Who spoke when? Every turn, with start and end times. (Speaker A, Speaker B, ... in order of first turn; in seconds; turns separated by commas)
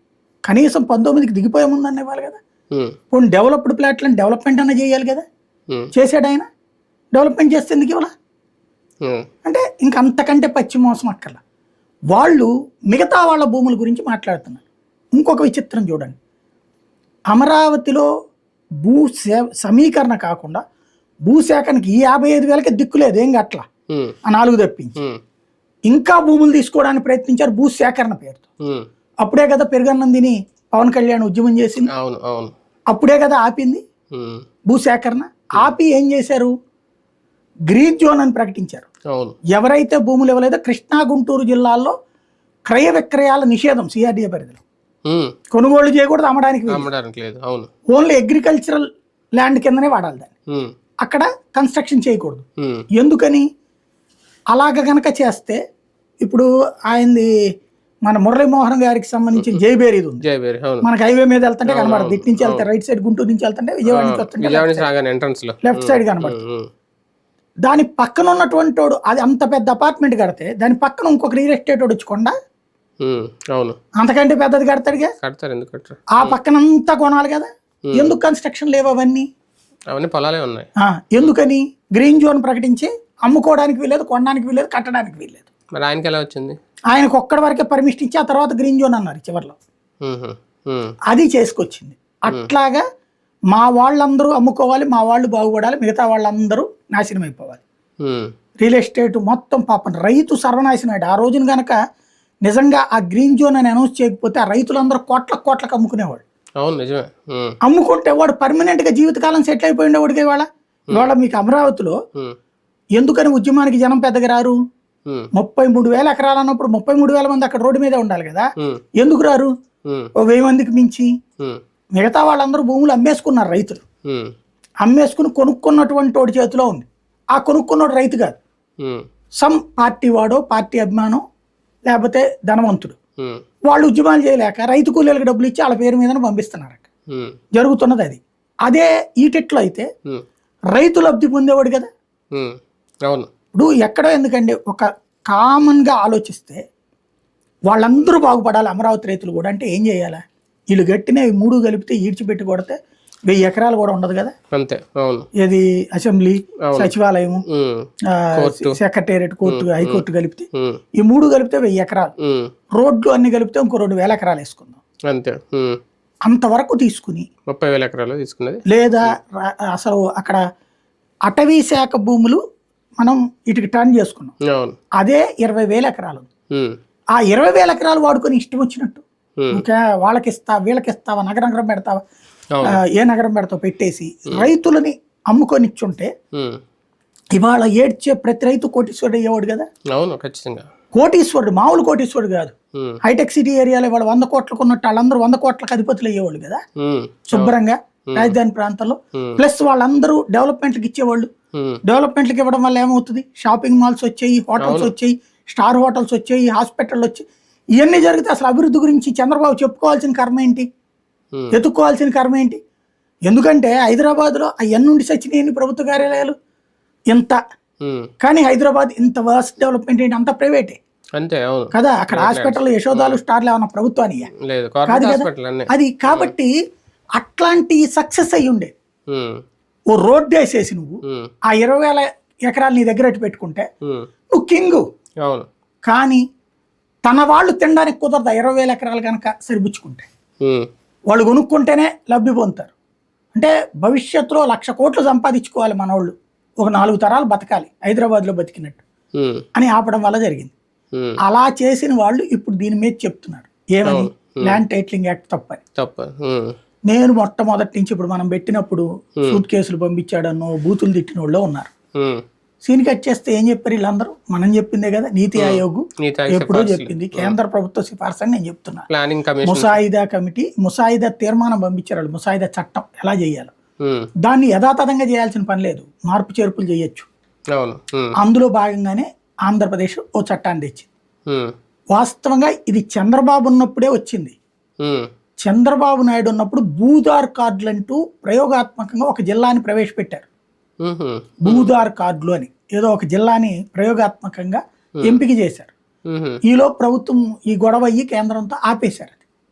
Speaker A: 0.5-2.4, Speaker A: 3.1-5.2, Speaker A: 5.9-6.5, Speaker A: 7.1-8.1, Speaker A: 9.4-11.4, Speaker A: 12.1-14.6, Speaker A: 15.2-16.2, Speaker A: 17.3-18.1, Speaker A: 18.8-20.6, Speaker A: 21.3-23.6, Speaker A: 24.3-24.9, Speaker A: 25.9-28.4, Speaker A: 29.2-31.9, Speaker B: 31.9-32.5, Speaker A: 32.9-33.8, Speaker B: 34.1-34.4, Speaker A: 34.7-36.5, Speaker A: 37.7-38.9, Speaker A: 39.5-41.9, Speaker A: 42.7-44.6, Speaker B: 45.1-45.3, Speaker A: 45.5-46.9, Speaker B: 46.7-47.7, Speaker A: 47.9-48.9, Speaker A: 49.4-50.3, Speaker A: 51.0-52.4, Speaker A: 53.0-53.5, Speaker A: 54.5-55.6, Speaker A: 56.2-57.3, Speaker A: 58.0-60.2, Speaker B: 60.2-60.9, Speaker A: 60.8-64.9, Speaker B: 61.7-62.6, Speaker B: 63.9-66.7, Speaker A: 65.7-66.4, Speaker A: 67.6-72.3, Speaker B: 73.0-73.8, Speaker A: 74.0-75.1, Speaker B: 75.2-76.3, Speaker A: 76.1-79.3, Speaker B: 79.9-80.7, Speaker A: 80.8-85.5, Speaker B: 85.8-86.6, Speaker A: 86.9-89.6, Speaker B: 90.0-90.9, Speaker A: 91.1-92.8, Speaker A: 93.5-97.6, Speaker B: 98.0-98.3, Speaker A: 98.6-101.8, Speaker A: 102.4-106.2, Speaker B: 106.6-107.5, Speaker A: 107.6-112.0, Speaker A: 113.0-114.6, Speaker A: 115.3-118.5, Speaker A: 119.0-119.5, Speaker A: 120.2-121.1, Speaker A: 122.0-123.8, Speaker A: 124.8-128.4, Speaker B: 128.8-129.1, Speaker A: 129.4-131.2, Speaker A: 131.9-132.9, Speaker A: 133.7-136.8, Speaker A: 137.6-139.9, Speaker A: 140.7-141.9, Speaker A: 143.5-146.6, Speaker A: 147.7-152.8, Speaker A: 153.3-154.3, Speaker B: 154.5-155.3, Speaker A: 155.4-157.4, Speaker B: 156.7-156.9, Speaker B: 157.5-158.8, Speaker A: 158.1-162.1, Speaker B: 159.4-160.0, Speaker B: 162.2-162.5, Speaker A: 162.8-164.8, Speaker B: 165.1-165.8, Speaker A: 166.3-167.3, Speaker B: 167.5-168.6, Speaker A: 168.7-170.4, Speaker A: 171.3-172.4, Speaker A: 173.0-174.3, Speaker B: 174.5-174.8, Speaker A: 175.0-176.3, Speaker A: 177.2-182.0, Speaker B: 182.5-182.8, Speaker A: 182.6-186.1, Speaker A: 187.4-189.7, Speaker B: 189.9-190.7, Speaker A: 190.9-192.5, Speaker A: 193.0-196.6, Speaker B: 196.8-197.5, Speaker A: 197.3-201.3, Speaker A: 201.8-207.2, Speaker B: 204.6-204.9, Speaker A: 207.8-210.7, Speaker A: 211.5-212.6, Speaker A: 213.3-216.3, Speaker A: 217.1-217.4, Speaker B: 217.8-218.1, Speaker A: 218.2-220.8, Speaker B: 221.2-223.2, Speaker A: 221.7-224.3, Speaker B: 224.5-226.3, Speaker A: 224.9-226.5, Speaker A: 227.2-228.7, Speaker B: 229.1-229.4, Speaker A: 229.9-233.6, Speaker A: 234.3-234.8, Speaker A: 235.8-236.2, Speaker A: 237.0-240.1, Speaker B: 240.4-240.7, Speaker A: 241.1-242.7, Speaker A: 243.3-248.8, Speaker B: 249.2-249.4, Speaker A: 249.6-250.5, Speaker A: 251.2-255.6, Speaker B: 253.8-254.6, Speaker B: 255.8-256.5, Speaker A: 256.9-261.7, Speaker A: 262.6-268.8, Speaker B: 265.4-267.4, Speaker B: 268.9-269.8, Speaker A: 269.4-273.5, Speaker B: 273.8-274.1, Speaker A: 274.2-277.1, Speaker B: 277.5-278.1, Speaker A: 278.2-280.9, Speaker A: 281.9-284.4, Speaker B: 284.8-285.1, Speaker A: 285.4-290.2, Speaker B: 290.8-291.7, Speaker A: 291.4-295.7, Speaker B: 296.1-296.4, Speaker A: 296.5-299.2